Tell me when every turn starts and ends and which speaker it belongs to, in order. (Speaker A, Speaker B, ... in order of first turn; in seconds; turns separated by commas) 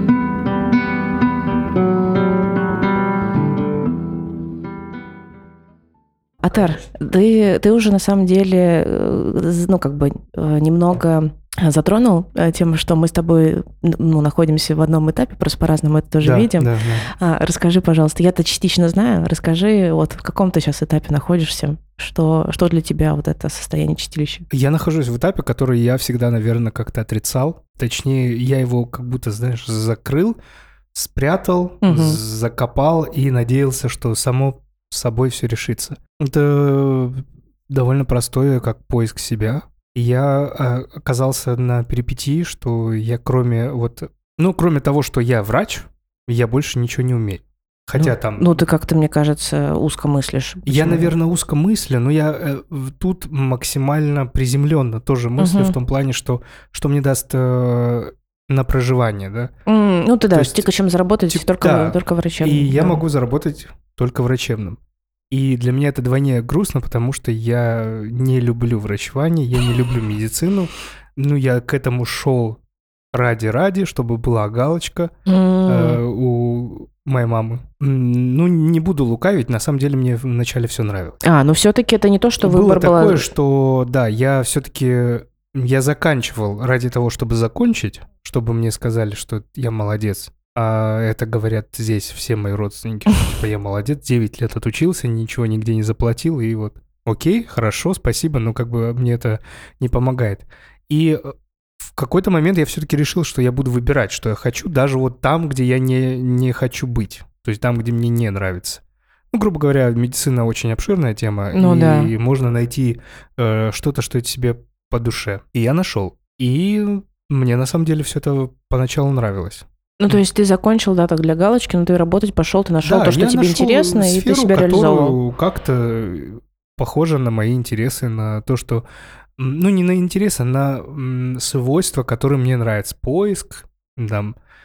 Speaker A: 6.4-24.5, Speaker B: 16.2-17.1, Speaker B: 24.5-30.4, Speaker B: 30.9-48.5, Speaker A: 31.8-32.2, Speaker A: 48.0-51.1, Speaker B: 50.7-59.5, Speaker A: 55.4-55.8, Speaker A: 59.7-63.0, Speaker B: 60.3-60.7, Speaker B: 61.3-64.8, Speaker B: 65.3-72.6, Speaker B: 73.1-75.1, Speaker A: 75.3-76.0, Speaker B: 75.7-81.2, Speaker A: 81.2-83.3, Speaker B: 82.4-120.2, Speaker A: 111.5-112.1, Speaker A: 120.0-125.2, Speaker B: 122.8-128.8, Speaker B: 129.4-134.3